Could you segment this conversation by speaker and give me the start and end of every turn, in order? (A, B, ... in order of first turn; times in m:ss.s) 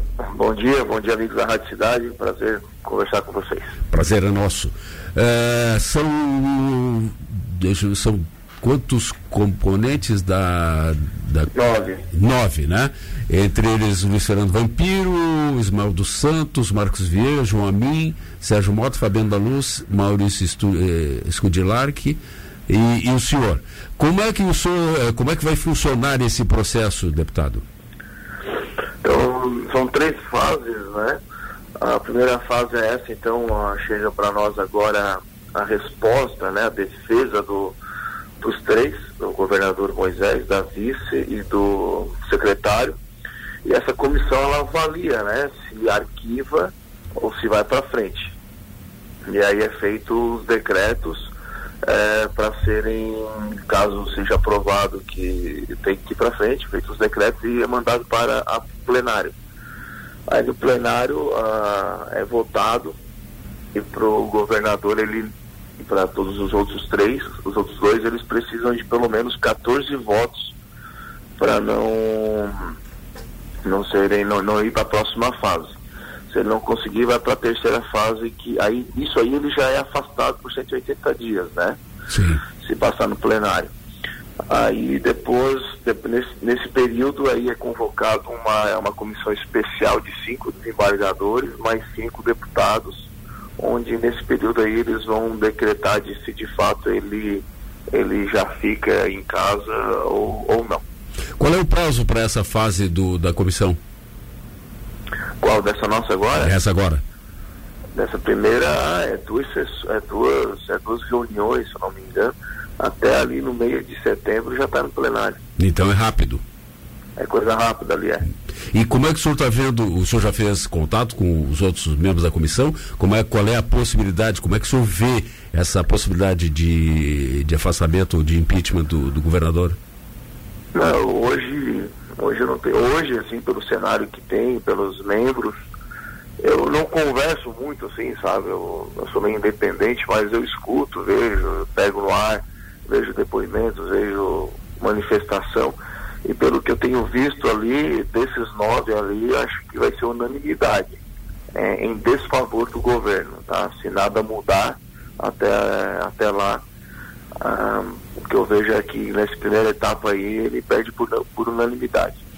0:00.2-0:03.8 A
0:03.9-0:11.5 B
0:11.5-0:12.1 A
0:12.1-0:27.6 B
0:29.0-0:31.2 A
0:31.8-0:37.8 A
0:38.4-0:43.0 A
0:43.6-0:48.4 A
0:49.3-0:51.3 A
0:51.8-0:59.4 A
1:00.3-1:03.0 A
1:03.7-1:10.6 A
1:11.4-1:12.7 A
1:13.6-1:15.7 A
1:16.3-1:21.8 A
1:22.1-1:22.4 B
1:22.6-1:23.7 A
1:24.5-1:40.8 A
1:41.4-1:43.8 B
1:45.4-1:46.5 A
1:46.4-1:47.0 B
1:47.9-1:55.4 A
1:55.6-1:56.4 B
1:57.2-1:58.2 A
1:58.7-2:09.8 B
2:10.7-2:15.6 A
2:16.4-2:31.0 A
2:31.6-2:36.6 A
2:37.4-2:42.2 A